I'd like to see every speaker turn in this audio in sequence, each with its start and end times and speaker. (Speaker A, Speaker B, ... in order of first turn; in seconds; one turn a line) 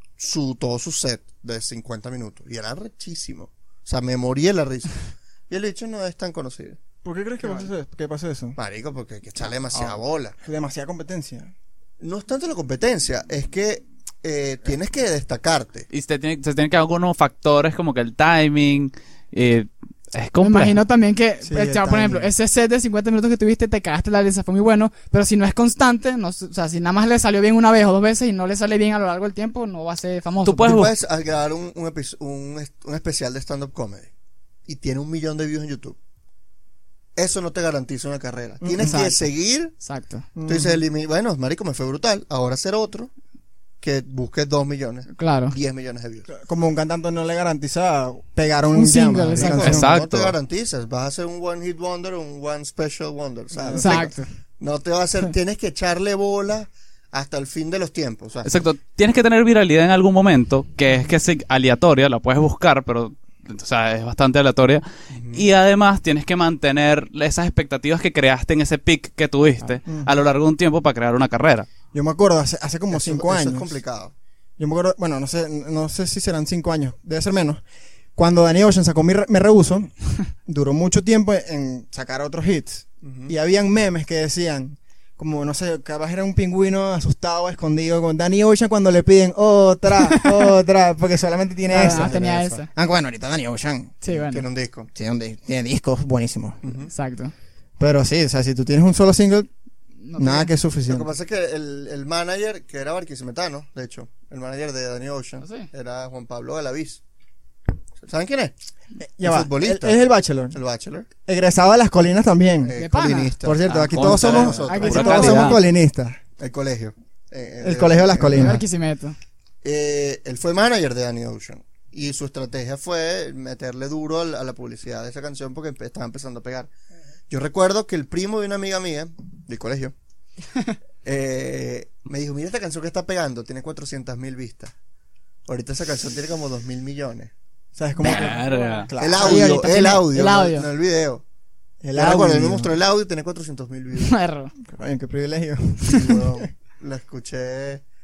Speaker A: 0.2-6.8
Speaker B: 7.0-8.6
Speaker A: 8.6-10.4
Speaker B: 10.4-11.5
Speaker A: 12.0-15.9
Speaker C: 15.9-20.8
Speaker D: 20.4-30.8
Speaker B: 21.4-22.3
Speaker C: 30.4-30.9
Speaker A: 30.6-34.1
Speaker A: 34.7-36.0
Speaker A: 37.2-39.7
Speaker B: 38.6-39.0
Speaker D: 38.8-39.2
Speaker D: 39.8-40.3
Speaker B: 40.4-40.8
Speaker A: 40.5-43.1
Speaker A: 43.8-46.3
Speaker D: 45.1-45.6
Speaker B: 46.3-49.9
Speaker D: 48.7-49.8
Speaker A: 49.4-58.5
Speaker C: 49.6-50.4
Speaker B: 53.5-54.1
Speaker D: 53.8-54.3
Speaker C: 58.5-71.7
Speaker A: 65.2-65.4
Speaker B: 71.9-73.8
Speaker A: 72.9-74.1
Speaker B: 74.6-77.6
Speaker B: 78.2-79.9
Speaker B: 80.4-94.0
Speaker A: 83.0-83.3
Speaker D: 91.7-92.7
Speaker A: 91.8-92.3
Speaker D: 94.0-94.5
Speaker A: 94.1-94.9
Speaker B: 95.0-96.6
Speaker A: 96.6-96.9
Speaker D: 96.9-97.3
Speaker B: 97.8-99.5
Speaker D: 100.0-100.5
Speaker B: 100.2-101.1
Speaker A: 100.9-107.0
Speaker D: 105.4-105.7
Speaker A: 108.0-108.5
Speaker B: 109.0-110.6
Speaker A: 109.2-111.1
Speaker B: 111.2-112.8
Speaker A: 112.6-115.5
Speaker D: 112.8-113.4
Speaker B: 113.4-116.2
Speaker C: 114.0-115.6
Speaker D: 114.6-115.6
Speaker A: 116.4-118.6
Speaker B: 117.6-118.6
Speaker D: 118.3-119.2
Speaker A: 119.6-126.7
Speaker A: 127.3-129.9
Speaker A: 131.0-134.7
Speaker A: 135.5-137.3
Speaker B: 137.8-139.7
Speaker D: 138.0-140.7
Speaker C: 138.0-138.9
Speaker A: 139.0-141.2
Speaker B: 141.8-142.7
Speaker A: 141.9-144.2
Speaker D: 144.0-144.5
Speaker B: 144.6-146.5
Speaker A: 145.9-147.8